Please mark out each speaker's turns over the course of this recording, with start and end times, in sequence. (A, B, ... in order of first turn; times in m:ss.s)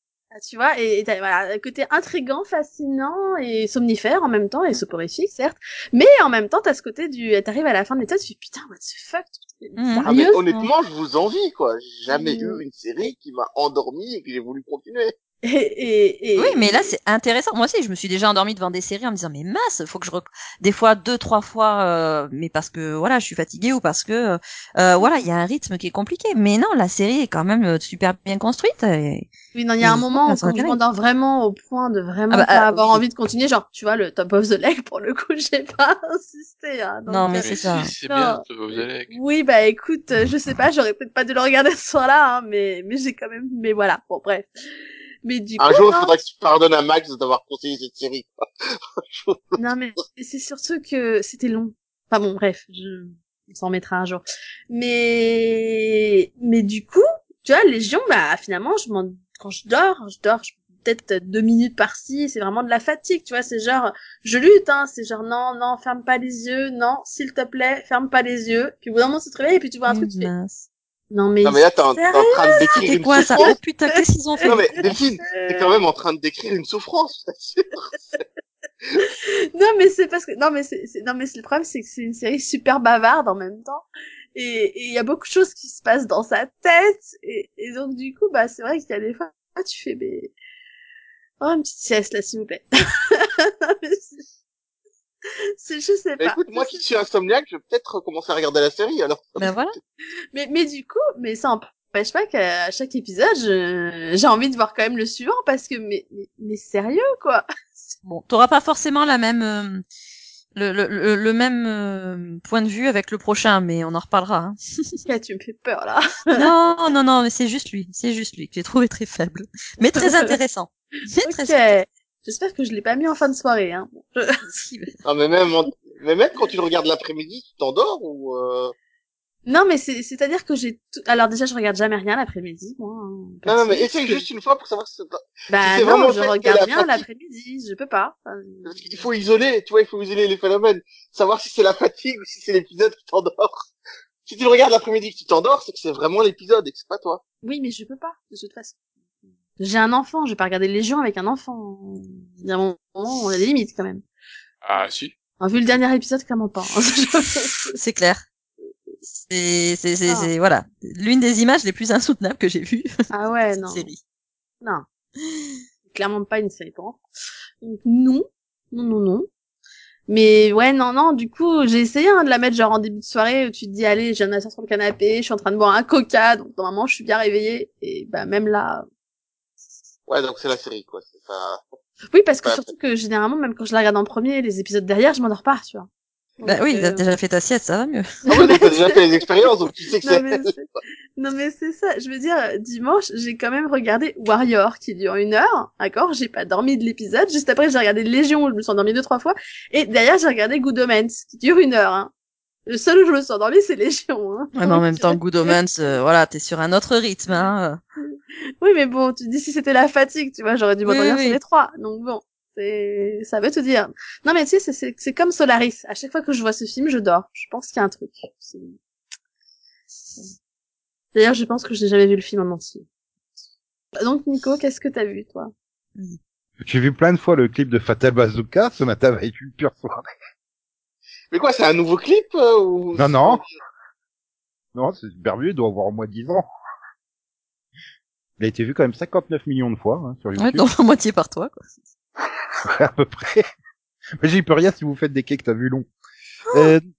0:00.3-0:10.4 A
0:09.8-0:10.7 B
0:10.0-0:15.1 C
0:12.1-0:12.6 A
0:15.4-0:16.9 A
0:16.4-0:29.3 B
0:29.5-0:44.5 A
0:29.8-0:30.8 B
0:32.3-0:33.0 B
0:37.1-0:37.9 B
0:37.3-0:39.2 D
0:45.2-0:46.1 A
0:45.6-0:48.4 C
0:49.0-0:49.6 C
0:49.6-1:10.3 A
1:09.9-1:10.6 B
1:11.1-1:15.7 A
1:11.4-1:13.6 C
1:12.7-1:14.9 B
1:14.4-1:17.9 C
1:19.0-1:30.3 A
1:31.4-1:34.2 A
1:35.2-1:36.8 A
1:36.2-1:39.7 C
1:39.4-1:39.8 B
1:40.3-1:47.4 A
1:48.0-1:49.8 B
1:50.6-1:55.0 B
1:55.1-1:56.5 A
1:56.3-2:01.8 B
2:00.0-2:00.3 A
2:01.2-2:04.4 A
2:04.5-2:05.0 B
2:05.0-2:08.7 C
2:09.5-2:14.2 A
2:13.4-2:17.0 C
2:15.5-2:19.0 A
2:18.6-2:23.7 C
2:24.3-2:27.2 C
2:27.4-2:28.8 A
2:29.6-2:34.0 A
2:34.6-2:35.1 D
2:35.4-2:37.7 A
2:37.7-2:38.2 B
2:39.3-2:42.9 B
2:40.1-2:40.3 A
2:43.1-2:43.9 A
2:43.7-2:44.0 B
2:45.9-2:47.0 A
2:47.6-2:49.3 A
2:50.1-2:58.9 A
3:00.1-3:01.6 C
3:02.1-3:05.9 A
3:06.4-3:07.1 A
3:06.4-3:08.2 B
3:08.3-3:09.0 A
3:08.3-3:10.5 C
3:10.0-3:22.1 A
3:22.7-3:26.0 A
3:24.6-3:27.8 B
3:28.6-3:38.8 A
3:30.8-3:31.4 B
3:41.1-3:42.8 A
3:44.0-3:45.5 A
3:46.7-3:50.1 E
3:51.3-3:53.6 C
3:53.0-3:53.4 E
3:54.8-3:56.4 E
3:58.4-4:00.7 E
4:00.4-4:01.7 B
4:02.8-4:03.4 E
4:04.2-4:05.9 E
4:06.5-4:06.7 B
4:06.5-4:06.8 E